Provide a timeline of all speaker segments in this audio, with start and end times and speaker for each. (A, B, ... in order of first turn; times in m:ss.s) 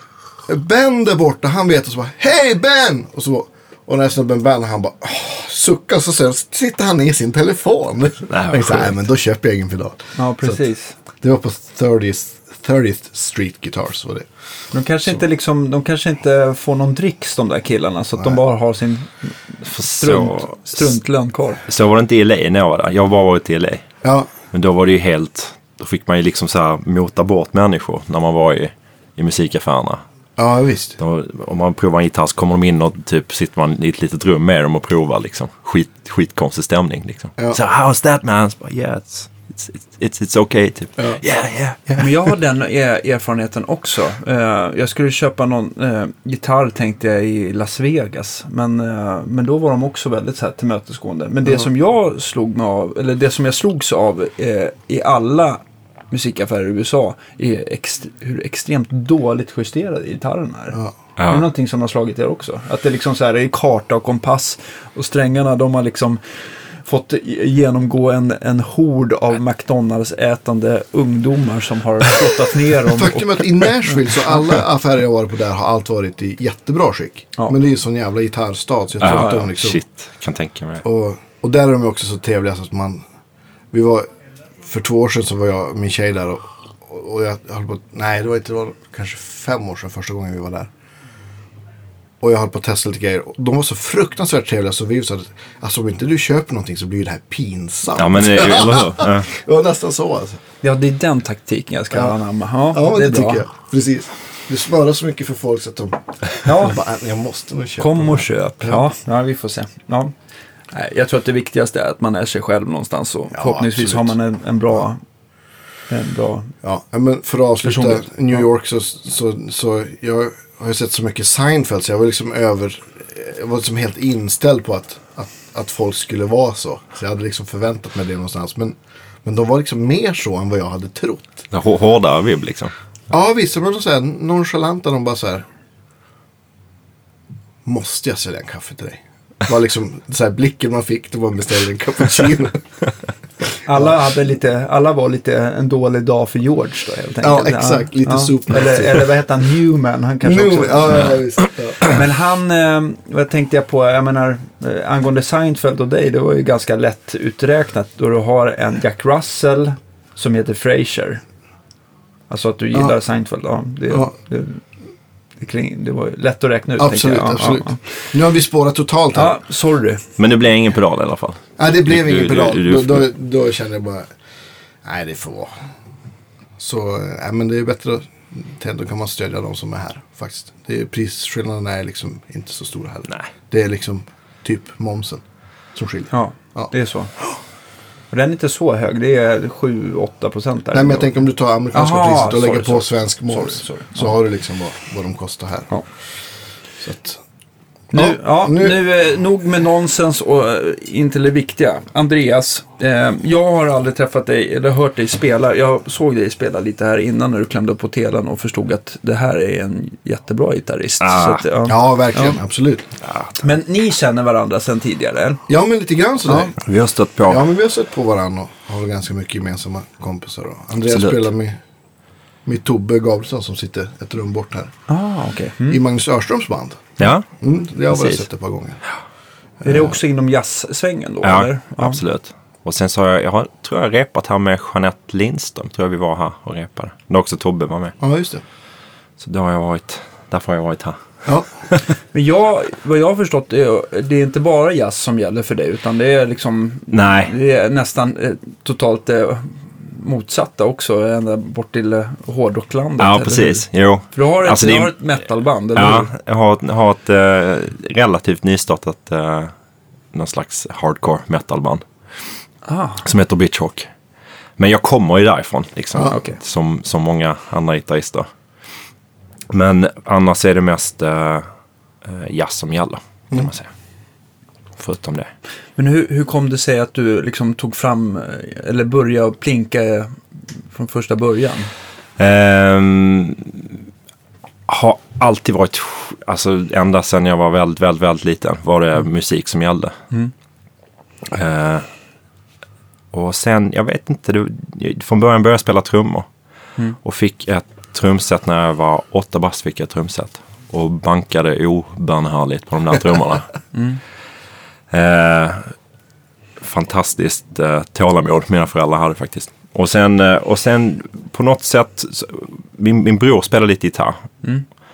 0:00.4-0:10.6 A
0:08.3-0:08.9 B
0:10.2-0:10.9 C
0:11.2-0:14.3 A
0:14.7-0:21.6 C
0:19.6-0:20.8 B
0:21.7-0:23.8 B
0:24.0-0:24.3 A
0:24.5-0:30.0 B
0:30.4-0:31.0 A
0:31.0-0:42.0 B
0:42.0-1:14.3 C
1:01.2-1:01.5 B
1:12.8-1:19.8 A
1:19.0-1:20.8 B
1:19.1-1:19.4 C
1:20.8-1:23.0 A
1:23.7-1:24.1 A
1:24.6-1:30.7 A
1:32.2-1:40.4 A
1:37.9-1:39.3 B
1:40.6-1:43.4 C
1:42.7-1:48.8 A
1:46.4-1:46.8 C
1:47.8-1:50.1 C
1:50.7-1:55.0 C
1:53.3-1:54.1 A
1:55.9-1:56.5 C
1:56.6-2:11.2 A
1:57.6-1:58.4 C
2:11.5-2:12.7 B
2:13.1-2:15.4 A
2:17.6-2:22.6 A
2:23.6-2:31.2 C
2:27.2-2:29.1 A
2:30.2-2:32.0 A
2:31.8-2:41.2 C
2:42.3-2:44.6 C
2:45.4-2:48.1 C
2:46.8-2:49.4 A
2:49.1-2:50.0 C
2:50.2-2:53.1 B
2:51.6-2:54.1 A
2:54.8-2:55.6 A
2:56.6-3:05.2 A
3:05.7-3:06.7 A
3:06.1-3:07.1 C
3:08.1-3:11.1 C
3:10.7-3:15.7 A
3:11.7-3:14.1 C
3:16.8-3:17.2 A
3:17.9-3:32.4 C
3:17.9-3:18.8 A
3:31.0-3:31.4 B
3:31.6-3:32.9 A
3:33.0-3:33.4 B
3:33.4-3:35.4 C
3:35.5-3:36.6 A
3:36.6-3:37.4 B
3:37.2-3:41.6 A
3:40.9-3:41.2 B
3:42.4-3:44.7 A
3:44.9-3:45.8 C
3:45.7-3:48.8 A
3:47.0-3:47.3 B
3:47.9-3:48.2 B
3:49.6-3:49.9 A
3:49.6-3:52.0 C
3:51.2-3:57.9 B
3:58.0-3:58.4 A
3:59.2-4:01.0 B
4:02.1-4:16.1 C
4:06.9-4:07.3 B
4:13.0-4:14.9 B
4:15.7-4:19.5 B
4:20.1-4:21.8 B
4:22.6-4:23.0 C
4:23.0-4:23.9 B
4:24.6-4:28.3 B
4:26.1-4:26.4 C
4:29.5-4:31.5 B
4:32.0-4:33.7 B
4:34.8-4:35.3 B
4:35.8-4:41.7 C
4:42.2-4:43.8 B
4:44.7-4:50.0 B
4:51.3-4:51.9 B
4:53.1-4:56.3 B
4:57.0-5:03.5 B
5:03.7-5:04.0 C
5:04.9-5:05.7 B
5:06.6-5:14.2 B